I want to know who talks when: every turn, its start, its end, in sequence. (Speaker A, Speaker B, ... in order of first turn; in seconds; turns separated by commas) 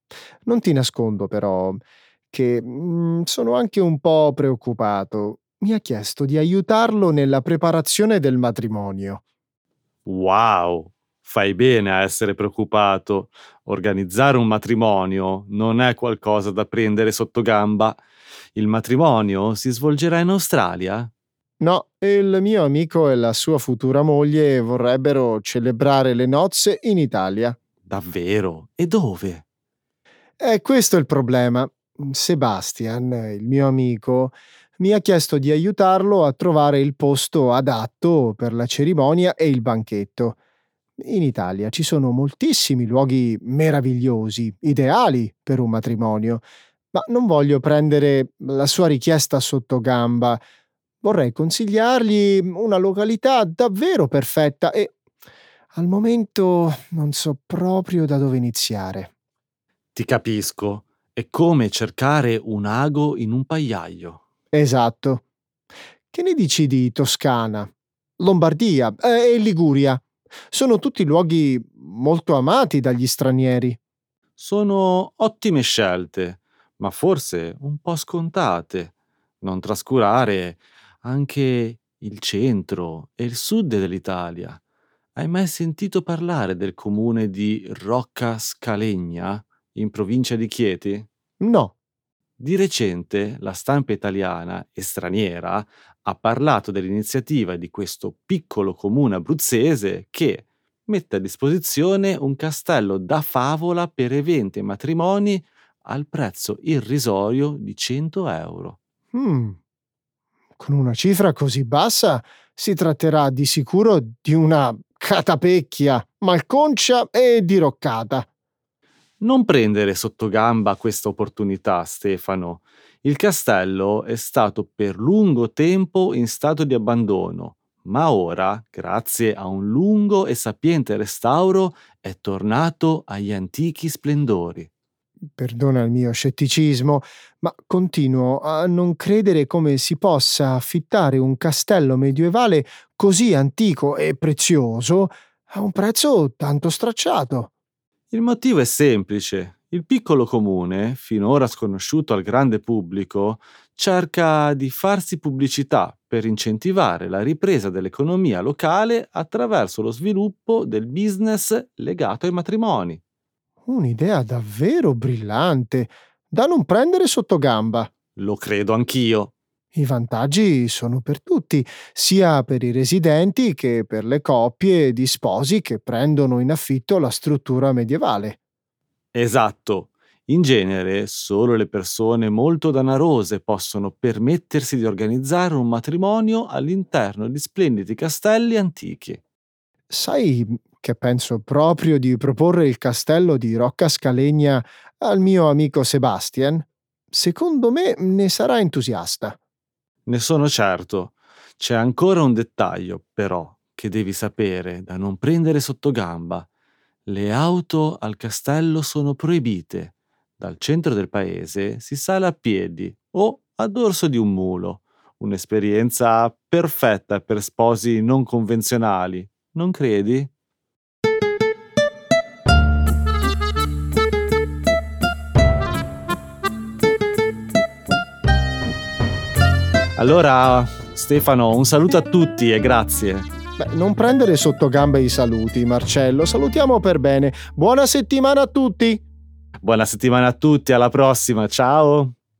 Speaker A: 0.5-9.2, Speaker B: 10.1-18.0, Speaker B: 18.5-21.1, Speaker A: 21.6-27.6, Speaker B: 27.9-29.4, Speaker A: 30.4-40.4, Speaker A: 41.0-50.4, Speaker A: 51.0-54.9, Speaker A: 55.7-59.1, Speaker B: 60.0-64.2, Speaker A: 64.5-65.2, Speaker A: 66.1-73.8, Speaker B: 74.4-84.6, Speaker B: 85.2-91.1, Speaker A: 91.4-91.7, Speaker B: 92.4-108.8, Speaker A: 109.1-109.6, Speaker A: 110.6-118.3, Speaker B: 119.2-134.7, Speaker A: 135.4-147.5, Speaker B: 148.1-163.0, Speaker A: 163.7-167.9, Speaker B: 168.2-169.3, Speaker A: 169.7-178.4, Speaker B: 179.1-189.2, Speaker A: 189.9-199.4, Speaker B: 200.1-206.4, Speaker B: 207.1-220.3, Speaker B: 230.0-233.3, Speaker A: 233.6-239.0, Speaker B: 239.6-242.1